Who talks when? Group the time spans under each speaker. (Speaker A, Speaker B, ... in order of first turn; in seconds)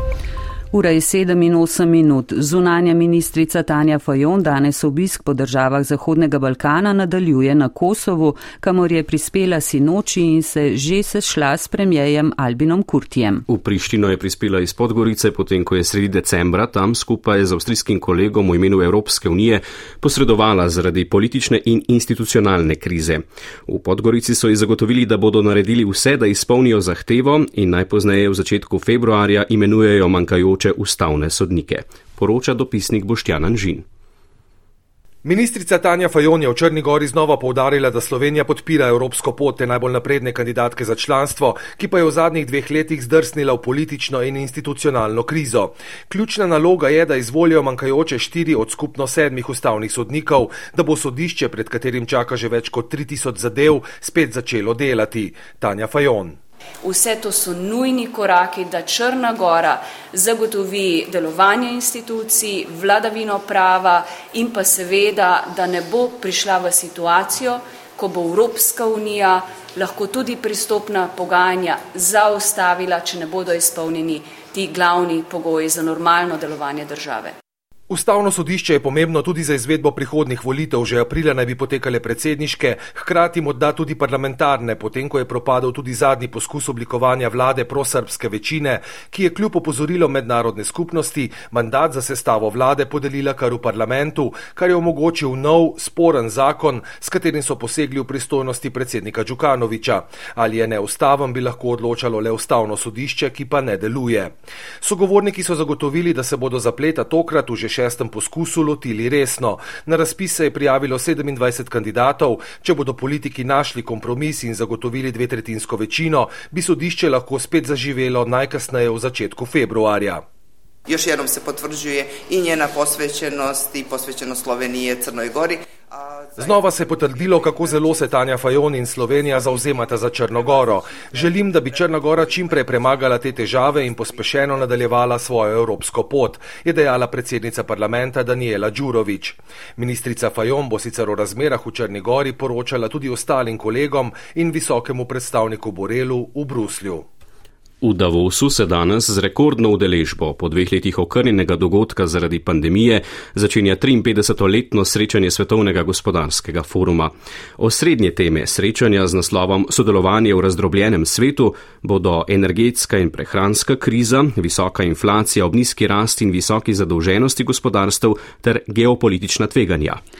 Speaker A: 0.7-13.4
Speaker B: 13.5-33.8, 147.8-170.0
Speaker C: 35.2-56.4, 77.9-120.2, 126.3-147.0
Speaker D: 56.8-77.3
Speaker E: 120.9-125.6